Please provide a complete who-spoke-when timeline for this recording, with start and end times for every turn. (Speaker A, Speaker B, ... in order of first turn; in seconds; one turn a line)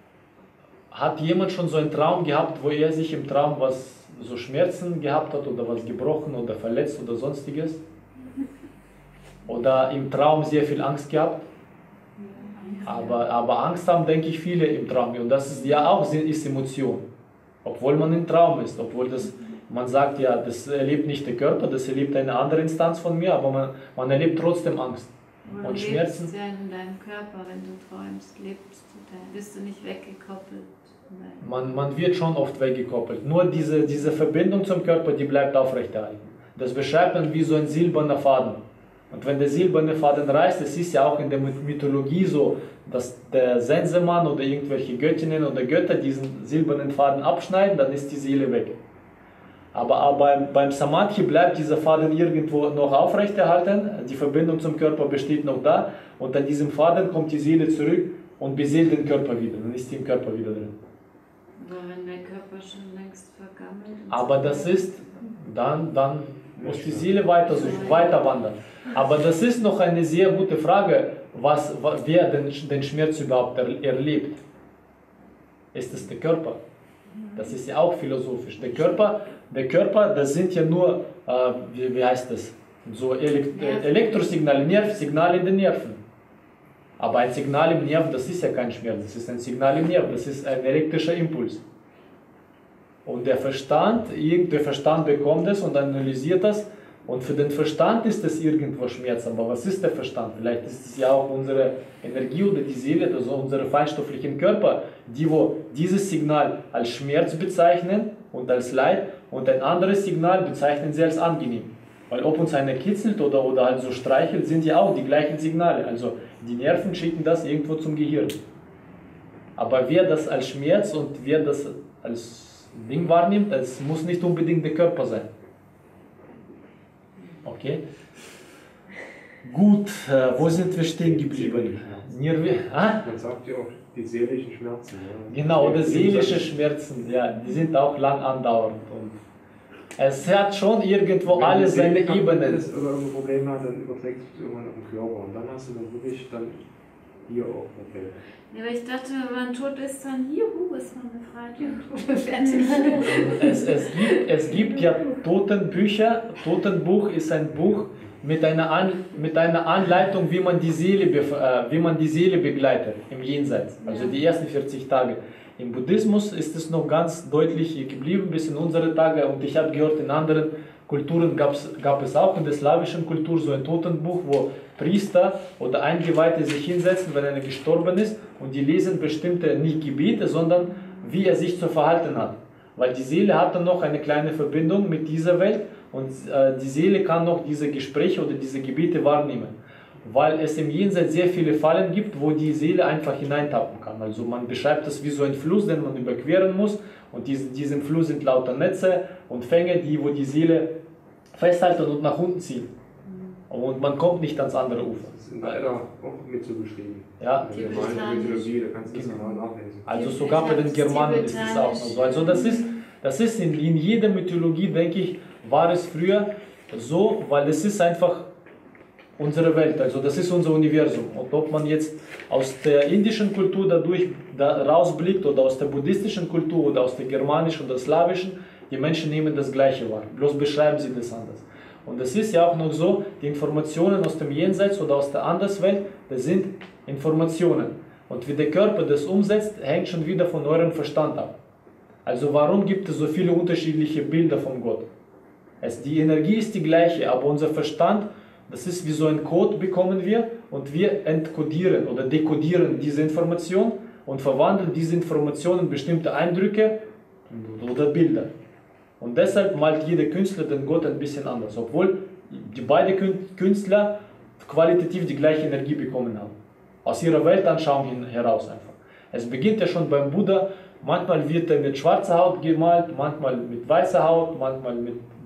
Speaker A: 0.9-7.8
Speaker A: 9.5-11.5
Speaker B: 12.4-13.2
Speaker A: 12.8-17.0
Speaker A: 17.6-25.1
Speaker B: 25.4-31.5
Speaker A: 25.6-26.3
Speaker A: 31.4-38.6
Speaker A: 39.1-48.8
Speaker A: 49.7-60.8
Speaker B: 61.6-65.3
Speaker A: 64.1-74.4
Speaker C: 66.6-67.2
Speaker B: 67.5-68.3
Speaker A: 75.7-76.6
Speaker A: 77.3-86.0
Speaker B: 83.5-84.4
Speaker A: 87.0-91.6
Speaker A: 93.0-118.4
Speaker A: 119.6-125.3
Speaker A: 127.4-127.8
Speaker A: 129.4-133.1
Speaker C: 130.3-132.1
Speaker C: 133.0-136.5
Speaker A: 135.3-139.2
Speaker A: 140.0-142.6
Speaker C: 141.2-146.6
Speaker C: 147.3-148.2
Speaker B: 148.5-154.0
Speaker C: 153.1-153.3
Speaker A: 153.3-200.8
Speaker B: 163.8-164.2
Speaker B: 180.7-181.0
Speaker A: 201.3-202.7
Speaker B: 203.1-203.3
Speaker A: 203.5-205.7
Speaker C: 205.1-209.9
Speaker A: 207.2-208.2
Speaker B: 207.5-208.6
Speaker A: 208.8-209.3
Speaker A: 209.8-218.3
Speaker B: 209.9-212.8
Speaker A: 219.2-241.3
Speaker A: 242.0-244.9
Speaker A: 245.6-258.3
Speaker A: 259.0-275.0